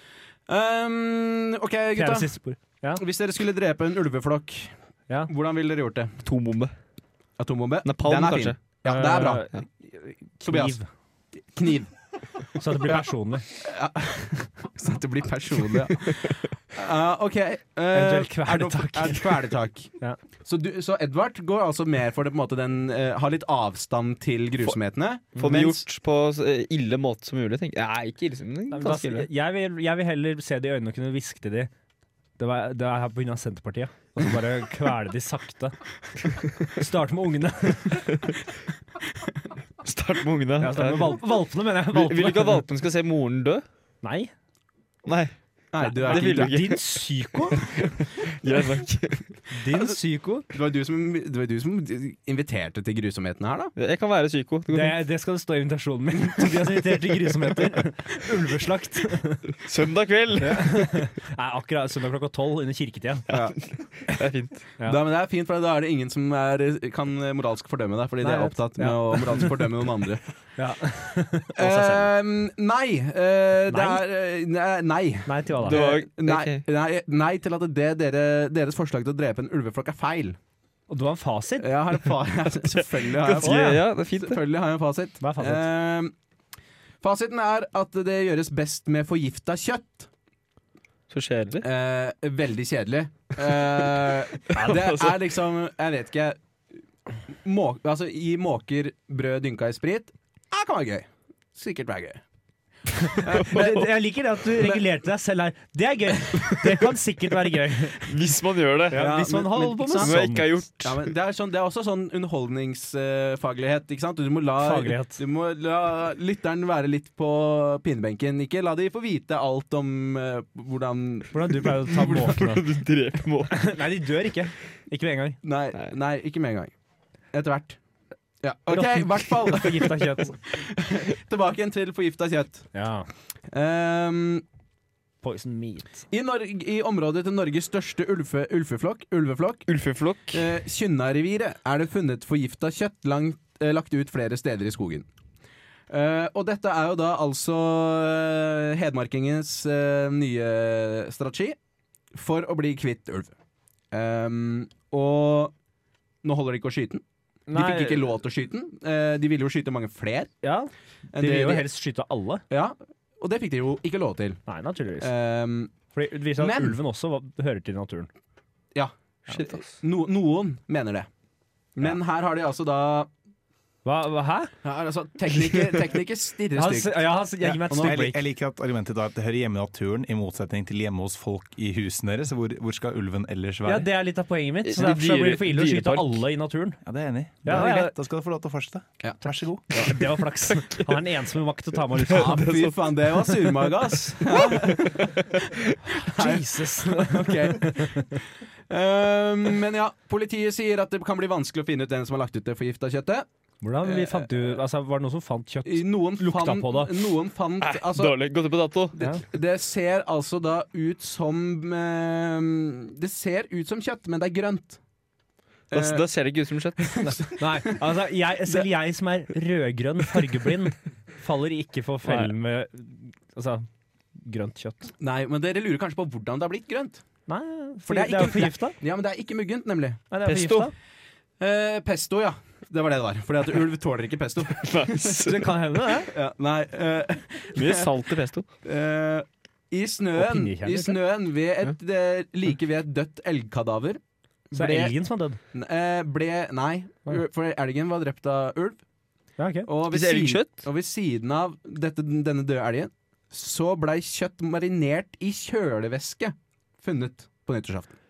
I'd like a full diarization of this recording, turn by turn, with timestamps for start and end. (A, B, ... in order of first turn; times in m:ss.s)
0:00.5-0:02.4 A
0:02.0-0:03.0 B
0:03.0-0:04.7 A
0:05.3-0:06.2 A
0:06.2-0:06.7 C
0:07.4-0:09.5 A
0:07.8-0:08.6 C
0:08.9-0:10.9 B
0:10.4-0:10.8 A
0:11.5-0:11.9 A
0:12.6-0:13.5 B
0:13.6-0:19.9 A
0:16.1-0:16.4 C
0:17.9-0:19.4 B
0:20.4-0:25.8 A
0:25.4-0:29.3 C
0:28.7-0:31.7 B
0:32.4-0:35.8 B
0:36.7-0:38.1 B
0:38.1-0:38.4 C
0:39.8-0:41.3 C
0:40.6-0:42.6 B
0:41.9-0:43.6 C
0:44.0-0:44.3 B
0:45.0-0:45.3 C
0:45.7-0:46.6 A
0:45.8-0:47.6 B
0:46.0-0:49.4 C
0:49.5-0:50.5 B
0:50.5-0:53.7 A
0:53.8-0:55.0 C
0:54.7-0:59.5 B
0:59.6-1:01.0 C
1:00.4-1:03.2 B
1:03.3-1:03.6 A
1:03.3-1:04.7 C
1:04.8-1:10.2 A
1:08.2-1:09.6 B
1:10.6-1:12.1 B
1:11.6-1:20.4 A
1:13.7-1:14.0 B
1:15.3-1:15.9 B
1:15.6-1:16.6 C
1:20.9-1:21.7 B
1:21.6-1:26.1 A
1:22.8-1:24.4 C
1:23.4-1:23.8 B
1:25.2-1:25.7 B
1:27.0-1:30.1 A
1:31.1-1:31.7 C
1:31.6-1:36.4 A
1:34.5-1:35.2 C
1:37.4-1:42.2 A
1:43.0-1:48.0 B
1:43.2-1:43.9 A
1:43.3-1:43.9 C
1:48.0-1:49.0 C
1:48.9-1:50.6 B
1:48.9-1:50.2 A
1:50.0-1:51.1 C
1:50.8-2:02.0 A
1:54.6-1:55.2 B
2:01.3-2:02.7 B
2:02.0-2:03.7 C
2:03.5-2:05.4 B
2:05.4-2:06.7 A
2:07.3-2:07.8 A
2:08.4-2:12.7 A
2:08.7-2:10.4 B
2:12.7-2:13.1 B
2:13.5-2:14.4 A
2:15.2-2:16.0 B
2:16.1-2:19.7 A
2:19.7-2:20.5 C
2:20.3-2:25.1 A
2:25.9-2:31.6 A
2:32.1-2:33.4 A
2:33.9-2:35.5 A
2:36.2-2:40.3 A
2:37.5-2:38.1 B
2:40.4-2:42.4 B
2:41.1-2:41.7 A
2:42.5-2:44.4 A
2:44.5-2:45.1 B
2:45.0-2:45.7 A
2:45.9-2:48.1 B
2:46.4-2:46.8 A
2:48.7-2:51.1 A
2:49.3-2:49.6 C
2:51.8-2:53.1 A
2:53.8-2:54.5 B
2:54.6-2:58.0 A
2:56.6-2:58.2 B
2:57.8-3:03.9 D
3:03.6-3:06.8 B
3:04.6-3:06.2 C
3:06.8-3:09.6 D
3:07.4-3:08.0 B
3:09.7-3:12.4 B
3:10.6-3:10.9 C
3:12.1-3:13.7 C
3:12.1-3:15.2 A
3:14.3-3:14.6 B
3:14.6-3:15.5 C
3:16.0-3:23.3 A
3:16.0-3:18.1 B
3:23.6-3:27.0 B
3:23.8-3:24.3 A
3:25.7-3:28.2 A
3:27.6-3:29.0 C
3:29.0-3:34.8 A
3:35.7-3:36.0 A
3:35.7-3:37.1 C
3:36.9-3:37.8 A
3:37.0-3:43.7 B
3:42.0-3:42.3 C
3:44.2-3:44.9 B
3:45.0-3:47.0 A
3:47.3-3:48.8 B
3:47.9-3:50.0 A
3:50.1-3:50.7 B
3:50.2-3:50.7 C
3:51.4-3:55.2 A
3:54.5-3:55.6 C
3:55.2-3:56.1 B
3:56.1-3:57.9 A
3:57.6-3:58.5 C
3:58.6-4:05.0 A
4:00.2-4:01.0 B
4:04.5-4:05.4 B
4:05.5-4:08.8 A
4:09.4-4:09.7 B
4:09.7-4:18.0 A
4:09.9-4:10.7 C